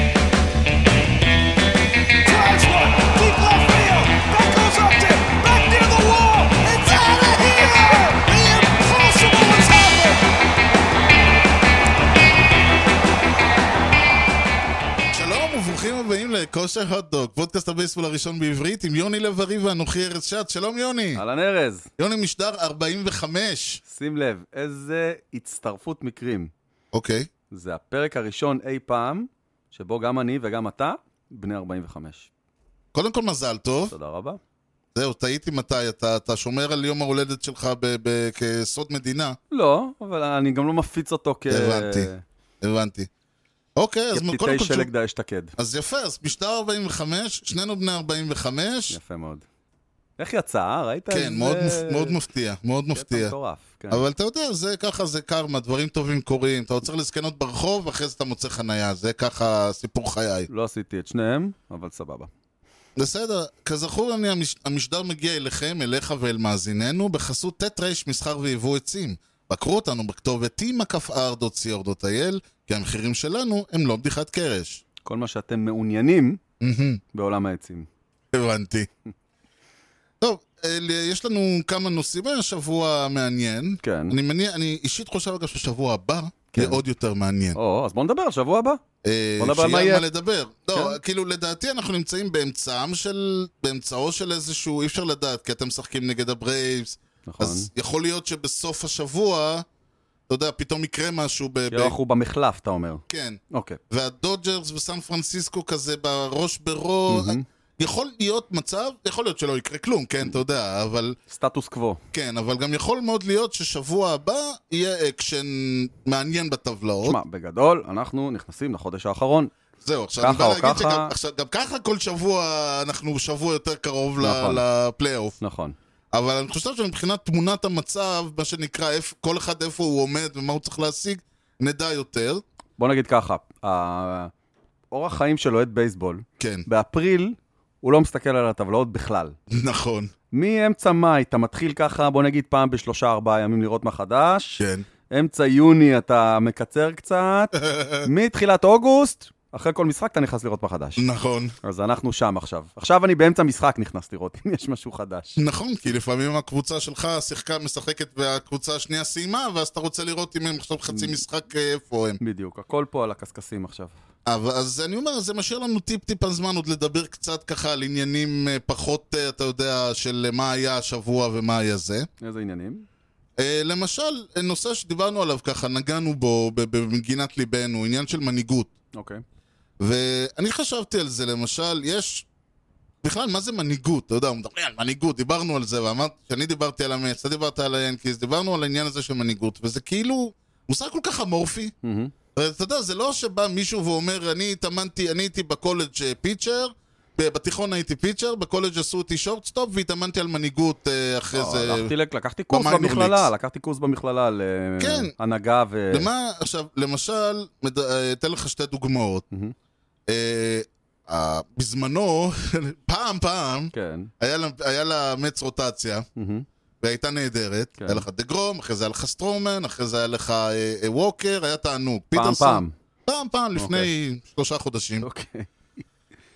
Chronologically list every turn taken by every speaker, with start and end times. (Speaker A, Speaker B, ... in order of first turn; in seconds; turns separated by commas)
Speaker A: 2.2-10.2, Speaker B: 6.8-7.7, Speaker B: 15.1-21.2, Speaker C: 21.1-21.9, Speaker B: 22.0-23.8, Speaker C: 23.9-26.5, Speaker B: 26.9-27.3, Speaker C: 27.5-32.3, Speaker B: 32.9-33.9, Speaker C: 33.9-34.4, Speaker B: 34.9-39.4, Speaker C: 39.5-42.2, Speaker B: 41.5-42.1, Speaker B: 42.6-43.1, Speaker B: 43.8-44.9, Speaker C: 44.1-45.5, Speaker B: 45.6-49.0, Speaker C: 48.9-49.4, Speaker C: 50.2-52.2, Speaker B: 51.1-53.3, Speaker C: 52.9-54.0, Speaker B: 53.9-60.5, Speaker C: 60.5-62.3, Speaker B: 63.0-74.8, Speaker C: 75.0-76.4, Speaker B: 76.6-77.0, Speaker C: 77.1-77.9, Speaker B: 78.3-78.9, Speaker B: 80.2-87.6, Speaker C: 83.8-84.2, Speaker C: 86.5-86.8, Speaker C: 87.5-88.8, Speaker B: 89.0-99.6, Speaker C: 89.4-90.0, Speaker C: 97.2-97.7, Speaker B: 100.3-101.9, Speaker C: 101.7-103.8, Speaker B: 103.1-111.2, Speaker C: 107.1-107.4, Speaker C: 111.3-112.0, Speaker B: 112.1-117.2, Speaker C: 117.0-119.5, Speaker B: 119.8-125.4, Speaker C: 120.2-121.1, Speaker C: 124.2-124.6, Speaker C: 125.4-125.7, Speaker B: 126.1-132.4, Speaker C: 132.8-134.3, Speaker C: 134.9-139.3, Speaker B: 136.4-136.7, Speaker B: 139.5-140.1, Speaker C: 140.3-151.0, Speaker B: 144.6-144.8, Speaker B: 147.5-148.1, Speaker B: 151.0-151.5, Speaker C: 151.6-155.4, Speaker B: 155.4-162.2, Speaker C: 160.9-161.1, Speaker C: 162.2-163.9, Speaker B: 164.2-172.1, Speaker C: 172.2-172.8, Speaker B: 173.4-178.7, Speaker C: 178.9-179.2, Speaker B: 179.8-182.2, Speaker B: 183.0-191.7, Speaker C: 191.8-192.1, Speaker B: 192.3-201.9, Speaker C: 201.3-206.1, Speaker B: 202.5-203.3, Speaker B: 204.8-205.1, Speaker B: 205.9-209.2, Speaker B: 210.1-216.1, Speaker C: 213.7-214.1, Speaker C: 216.2-216.4, Speaker B: 216.8-225.0, Speaker C: 217.8-218.1, Speaker C: 222.1-222.7, Speaker C: 223.6-223.9, Speaker C: 225.0-225.5